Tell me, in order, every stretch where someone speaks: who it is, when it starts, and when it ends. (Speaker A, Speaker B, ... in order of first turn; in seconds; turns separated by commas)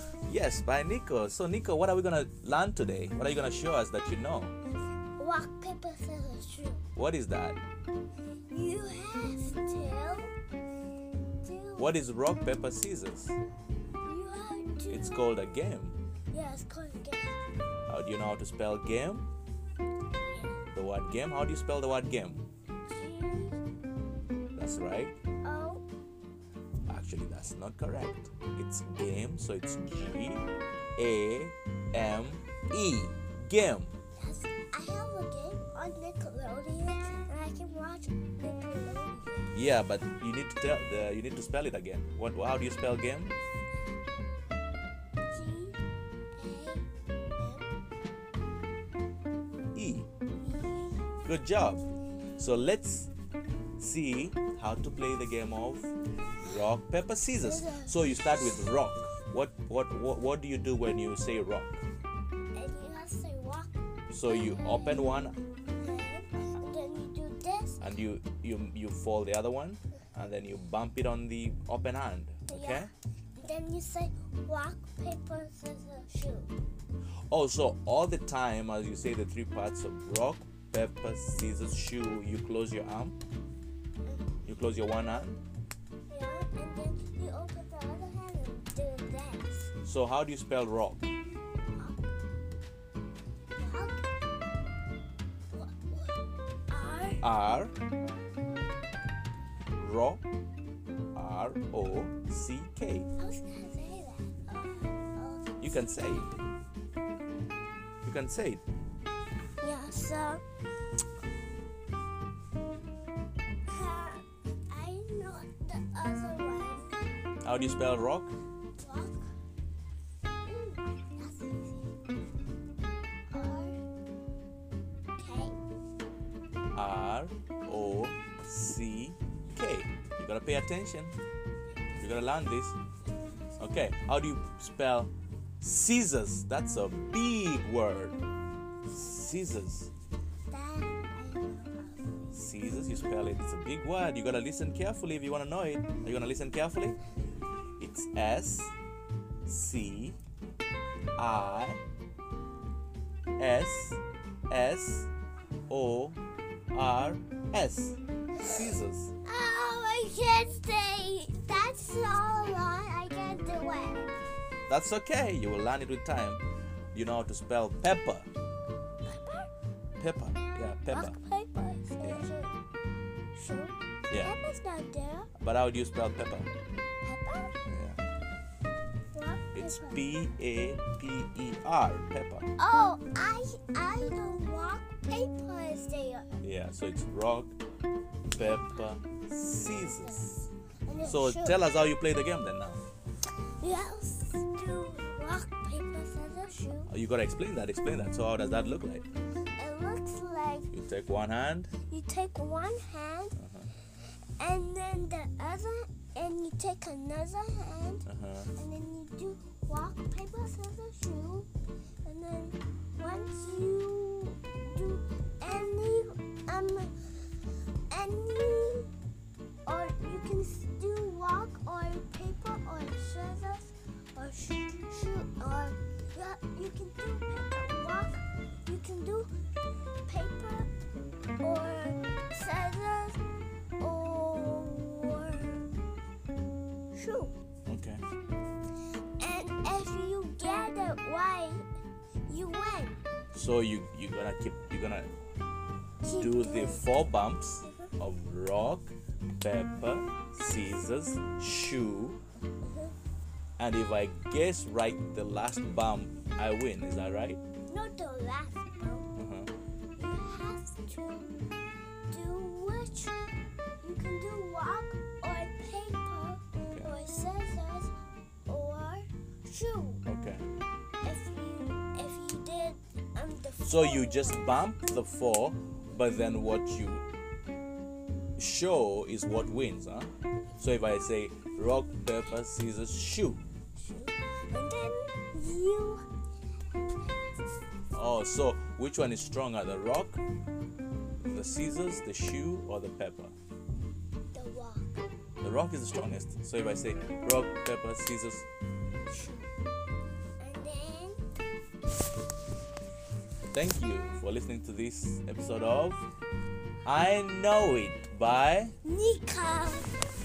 Speaker A: 0.2-4.5, Speaker B: 5.2-6.8, Speaker A: 6.9-7.6, Speaker B: 8.5-10.3, Speaker B: 11.4-12.0, Speaker A: 11.8-13.4, Speaker B: 14.0-15.4, Speaker A: 14.9-16.0, Speaker B: 16.3-17.4, Speaker A: 17.9-19.3, Speaker B: 20.1-20.6, Speaker A: 20.7-22.4, Speaker B: 22.8-23.6, Speaker A: 24.6-25.2, Speaker B: 25.4-25.8, Speaker A: 26.9-30.4, Speaker A: 31.0-33.9, Speaker B: 34.2-39.5, Speaker A: 39.5-43.3, Speaker B: 45.3-45.8, Speaker B: 46.4-46.8, Speaker B: 47.4-47.7, Speaker A: 49.7-50.1, Speaker B: 50.4-50.9, Speaker A: 51.2-51.8, Speaker A: 52.4-53.1, Speaker A: 53.8-61.8, Speaker B: 57.4-58.0, Speaker B: 62.5-65.1, Speaker A: 64.1-65.4, Speaker B: 65.7-67.8, Speaker A: 67.8-72.9, Speaker B: 72.5-76.5, Speaker A: 77.3-83.2, Speaker B: 84.0-84.3, Speaker A: 84.4-85.4, Speaker B: 86.1-89.7, Speaker A: 89.8-91.0, Speaker B: 91.7-92.0, Speaker B: 93.5-94.1, Speaker B: 95.5-97.3, Speaker A: 97.2-97.7, Speaker A: 99.8-100.2, Speaker A: 101.1-103.1, Speaker B: 103.2-106.3, Speaker A: 105.6-106.3, Speaker A: 108.0-108.6, Speaker B: 109.6-110.4, Speaker B: 113.7-117.1, Speaker A: 117.4-118.3, Speaker B: 118.8-119.3, Speaker B: 120.4-121.9, Speaker B: 123.3-123.8, Speaker B: 125.2-125.6, Speaker A: 126.7-131.2, Speaker A: 132.0-132.8, Speaker A: 133.6-138.2, Speaker A: 138.8-139.9, Speaker B: 139.0-139.6, Speaker B: 140.5-142.3, Speaker A: 142.3-147.0, Speaker A: 147.8-148.7, Speaker A: 149.4-150.2, Speaker A: 151.2-151.8, Speaker A: 153.4-155.1, Speaker A: 155.7-156.2, Speaker A: 156.7-159.1, Speaker B: 159.2-164.1, Speaker A: 164.7-168.3, Speaker B: 169.0-169.5, Speaker A: 170.0-171.2, Speaker B: 170.9-172.6, Speaker A: 172.0-172.3, Speaker B: 173.3-175.3, Speaker A: 175.4-176.5, Speaker B: 177.0-177.5, Speaker A: 177.7-178.0, Speaker B: 179.1-180.1, Speaker A: 179.5-182.5, Speaker B: 182.6-186.4, Speaker A: 186.4-187.5, Speaker A: 188.3-190.5, Speaker B: 188.3-191.7, Speaker A: 191.0-192.8, Speaker B: 193.6-196.9, Speaker A: 196.9-199.0, Speaker B: 199.6-200.7, Speaker A: 200.7-201.7, Speaker B: 201.8-203.3, Speaker A: 203.4-203.7, Speaker B: 204.4-211.5, Speaker A: 208.1-208.5, Speaker B: 212.0-218.9, Speaker B: 219.7-229.3, Speaker B: 230.1-230.7, Speaker B: 231.4-233.2, Speaker B: 233.8-235.7, Speaker B: 236.9-237.3, Speaker A: 237.7-238.0, Speaker B: 239.2-241.7, Speaker B: 242.3-243.0, Speaker A: 243.3-245.1, Speaker B: 246.0-246.9, Speaker A: 246.2-252.2, Speaker B: 252.6-252.9, Speaker A: 253.6-257.4, Speaker B: 257.7-259.1, Speaker A: 259.1-259.5, Speaker B: 260.0-261.4, Speaker B: 262.1-263.2, Speaker B: 263.8-267.9, Speaker B: 268.4-270.0, Speaker A: 270.1-270.5, Speaker B: 271.0-274.5, Speaker A: 273.6-277.0, Speaker A: 278.4-283.4, Speaker B: 283.8-286.0, Speaker A: 287.9-290.2, Speaker A: 291.2-293.3, Speaker B: 294.3-295.0, Speaker A: 295.4-298.5, Speaker B: 299.1-299.5, Speaker B: 300.4-301.2, Speaker A: 303.5-306.0, Speaker A: 306.8-308.7, Speaker B: 308.8-310.0